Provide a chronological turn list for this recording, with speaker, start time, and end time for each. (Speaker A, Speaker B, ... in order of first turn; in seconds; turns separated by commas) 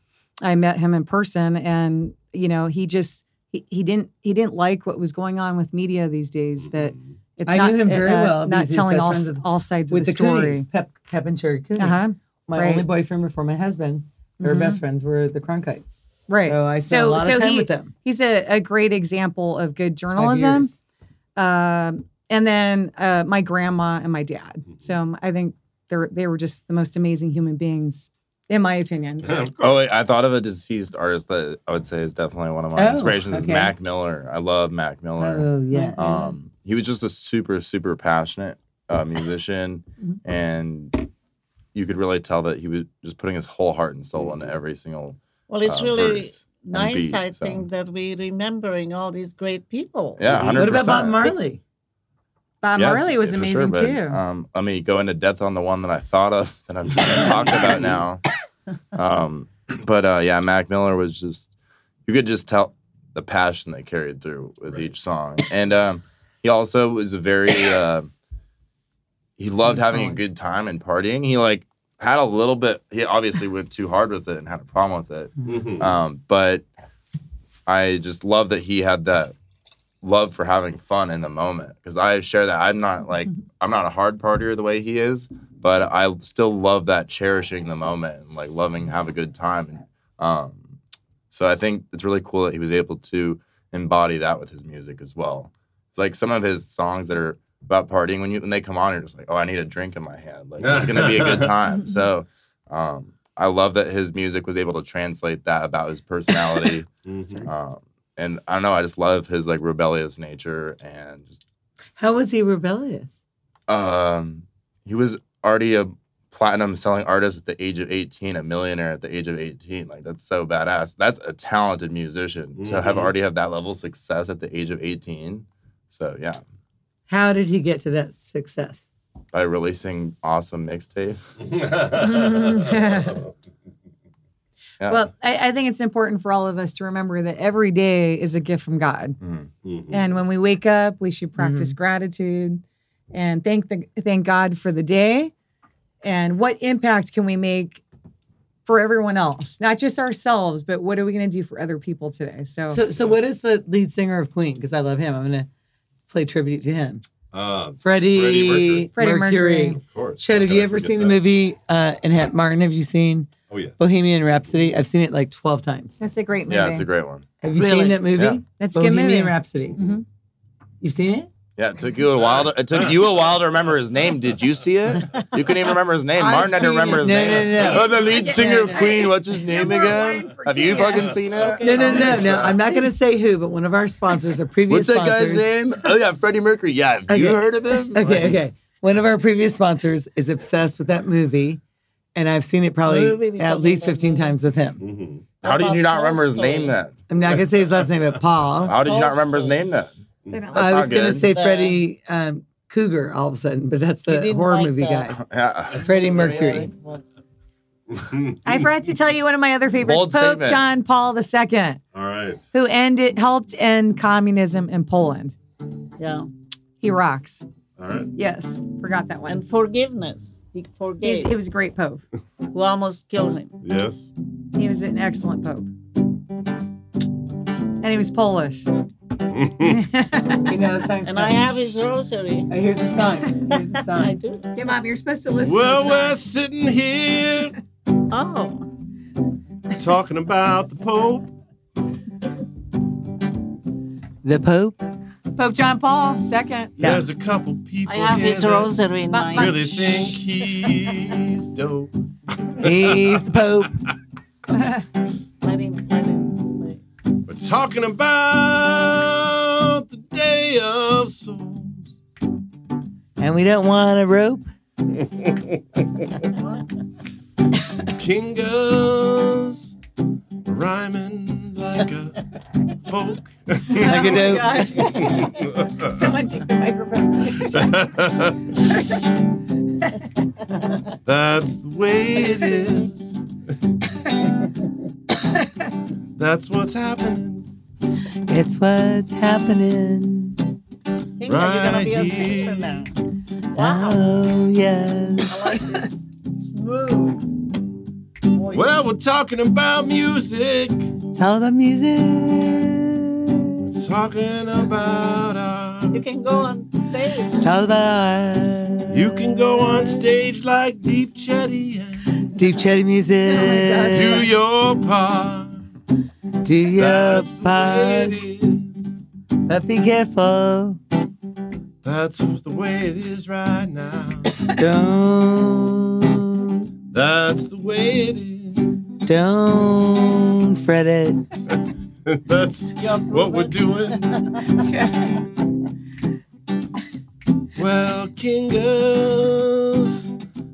Speaker A: 0.4-10.7, Speaker B: 6.6-7.1, Speaker C: 7.5-17.9, Speaker A: 11.8-12.9, Speaker A: 14.4-14.8, Speaker A: 16.3-20.8, Speaker C: 20.2-20.7, Speaker A: 21.4-29.5, Speaker B: 29.2-29.8, Speaker D: 29.6-41.1, Speaker C: 32.8-33.7, Speaker C: 35.2-36.3, Speaker A: 35.7-36.2, Speaker D: 41.7-47.7, Speaker B: 44.2-44.6, Speaker E: 45.5-50.4, Speaker D: 50.2-51.3, Speaker B: 50.2-51.0, Speaker C: 50.6-51.6, Speaker A: 52.6-54.2, Speaker D: 52.8-58.2, Speaker B: 57.1-58.0, Speaker D: 58.9-61.5, Speaker D: 62.1-68.1, Speaker D: 69.4-76.7, Speaker B: 75.5-76.0, Speaker D: 77.7-79.3, Speaker D: 80.0-90.8, Speaker D: 91.3-106.9, Speaker B: 100.6-101.5, Speaker B: 107.0-107.5, Speaker D: 107.5-111.4, Speaker C: 112.0-113.2, Speaker D: 113.7-126.4, Speaker B: 122.6-123.2, Speaker C: 127.1-128.9, Speaker D: 129.3-131.2, Speaker B: 131.4-133.3, Speaker A: 131.9-133.2, Speaker D: 134.8-135.1, Speaker A: 134.8-139.2, Speaker D: 139.2-139.5, Speaker B: 139.6-140.2, Speaker A: 139.9-145.3, Speaker C: 141.4-141.8, Speaker A: 146.0-147.8, Speaker A: 148.7-152.8, Speaker C: 152.7-155.5, Speaker C: 156.1-157.0, Speaker B: 157.3-158.9, Speaker C: 157.8-166.0, Speaker A: 158.9-159.8, Speaker B: 159.8-161.2, Speaker B: 163.5-163.8, Speaker A: 166.0-166.9, Speaker D: 166.5-167.3, Speaker C: 167.4-169.8, Speaker A: 167.6-168.1, Speaker D: 168.1-168.4, Speaker A: 168.6-170.0, Speaker C: 170.8-171.3, Speaker D: 171.6-182.5, Speaker B: 172.2-172.9, Speaker C: 176.2-179.1, Speaker B: 177.3-178.0, Speaker A: 177.7-182.2, Speaker B: 179.7-180.0, Speaker B: 181.2-181.5, Speaker E: 181.4-182.4, Speaker C: 181.6-185.5, Speaker B: 182.1-182.3, Speaker D: 184.7-188.2, Speaker C: 187.1-191.6, Speaker B: 188.0-188.4, Speaker C: 192.2-194.8, Speaker E: 192.8-194.4, Speaker B: 194.8-195.2, Speaker E: 195.4-196.8, Speaker D: 195.4-197.0, Speaker C: 197.1-198.8, Speaker D: 198.6-199.9, Speaker E: 198.8-199.7, Speaker A: 200.3-201.2, Speaker D: 200.5-201.3, Speaker C: 200.5-205.2, Speaker E: 201.2-201.8, Speaker E: 204.1-205.1, Speaker D: 205.2-206.3, Speaker E: 205.7-207.1, Speaker C: 205.8-206.7, Speaker B: 207.9-208.6, Speaker A: 208.4-211.8, Speaker D: 209.8-210.6, Speaker B: 211.9-212.4, Speaker A: 212.5-215.3, Speaker E: 216.0-216.3, Speaker A: 216.8-217.4, Speaker B: 217.8-218.1, Speaker A: 218.2-219.4, Speaker E: 219.3-221.3, Speaker A: 221.0-222.1, Speaker E: 222.5-223.5, Speaker B: 223.6-224.1, Speaker A: 224.6-225.7, Speaker A: 227.8-228.7, Speaker B: 229.3-229.8, Speaker A: 229.6-230.6, Speaker C: 230.5-231.6, Speaker E: 231.1-232.5, Speaker C: 232.5-234.2, Speaker E: 233.8-234.5, Speaker A: 234.6-236.2, Speaker B: 235.4-237.6, Speaker E: 238.1-238.7, Speaker B: 239.8-241.3, Speaker C: 244.2-244.8, Speaker A: 245.3-246.7, Speaker B: 246.8-248.8, Speaker E: 247.9-249.6, Speaker A: 249.1-250.2, Speaker B: 249.3-253.4, Speaker C: 252.6-253.9, Speaker E: 255.4-256.8, Speaker B: 257.3-261.9, Speaker C: 263.2-264.5, Speaker B: 265.0-265.8, Speaker E: 266.2-266.6, Speaker B: 267.9-269.8, Speaker B: 270.4-274.4, Speaker C: 273.7-274.7, Speaker A: 273.8-278.0, Speaker E: 274.0-275.3, Speaker B: 275.1-276.0, Speaker B: 277.4-278.6, Speaker A: 278.6-279.1, Speaker B: 281.1-283.3, Speaker B: 286.2-287.5, Speaker C: 288.3-290.4, Speaker E: 291.2-293.0, Speaker B: 291.2-292.9, Speaker E: 293.5-294.0, Speaker C: 293.5-295.6, Speaker E: 295.3-297.3, Speaker E: 298.3-298.8, Speaker B: 298.5-300.9, Speaker C: 301.1-303.7, Speaker B: 303.6-306.0, Speaker E: 305.9-307.4, Speaker C: 307.4-309.6, Speaker B: 308.9-312.2, Speaker C: 312.3-314.2, Speaker A: 313.3-314.3, Speaker B: 313.9-315.7, Speaker C: 316.4-318.2, Speaker B: 316.8-318.8, Speaker C: 319.5-320.8, Speaker B: 321.8-324.3, Speaker C: 324.6-326.6, Speaker B: 326.9-328.8, Speaker C: 329.1-331.3, Speaker B: 331.5-334.1, Speaker E: 333.1-334.5, Speaker A: 334.6-335.2, Speaker B: 337.6-340.1